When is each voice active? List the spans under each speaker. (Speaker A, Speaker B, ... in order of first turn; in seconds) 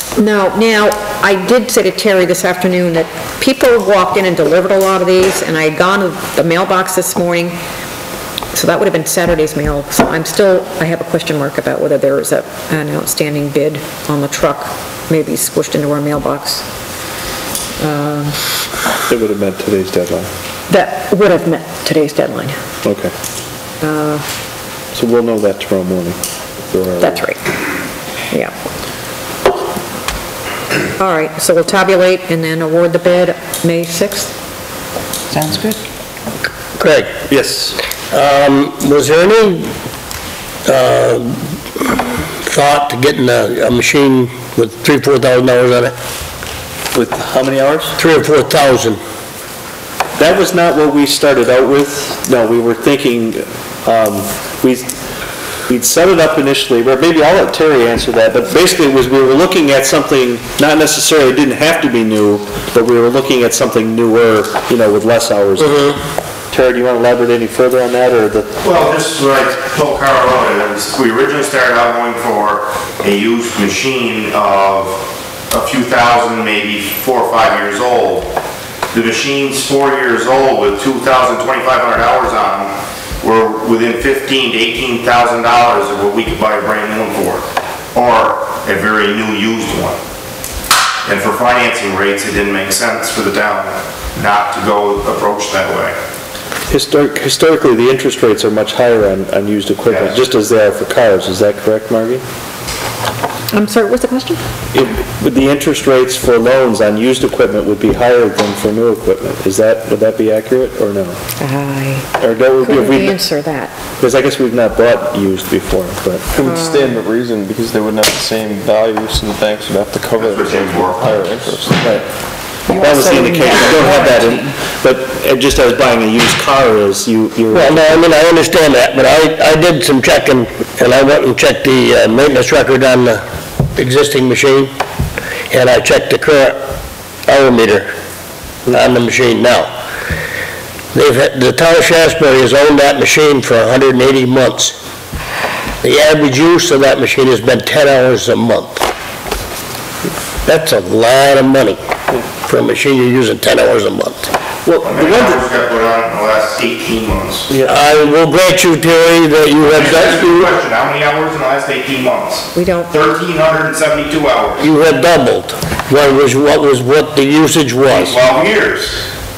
Speaker A: 0.1-7.5, 8.5-16.6, 17.8-18.4, 20.7-22.5, 23.8-24.2, 27.0-27.4, 31.0-34.3, 103.5-104.4, 111.4-112.1, 112.6-113.7, 162.5-162.9
Speaker B: 19.1-20.3, 22.8-23.1, 24.9-26.2, 26.7-27.2, 37.3-37.8, 46.9-47.9, 50.2-54.9, 55.7-66.0, 66.5-68.5, 96.7-102.2, 104.7-111.2, 112.2-113.2, 114.0-116.3, 121.8-122.0, 122.8-127.9, 154.6-155.4, 157.5-157.8
Speaker C: 35.3-35.8, 122.7-124.5
Speaker D: 36.8-37.1, 38.1-39.7, 40.6-41.4, 42.4-45.9, 48.0-49.0, 127.5-133.2, 133.7-134.7, 135.5-136.6, 137.2-137.9, 138.7-139.7, 140.9-144.8, 145.8-148.8, 150.4-151.8, 152.4-154.3, 157.7-160.5, 164.6-168.2
Speaker E: 68.6-78.3, 78.9-90.0, 91.0-95.9, 99.9-100.2, 120.2-121.2, 154.8-157.5, 159.7-164.6, 167.9-169.1
Speaker F: 116.3-121.9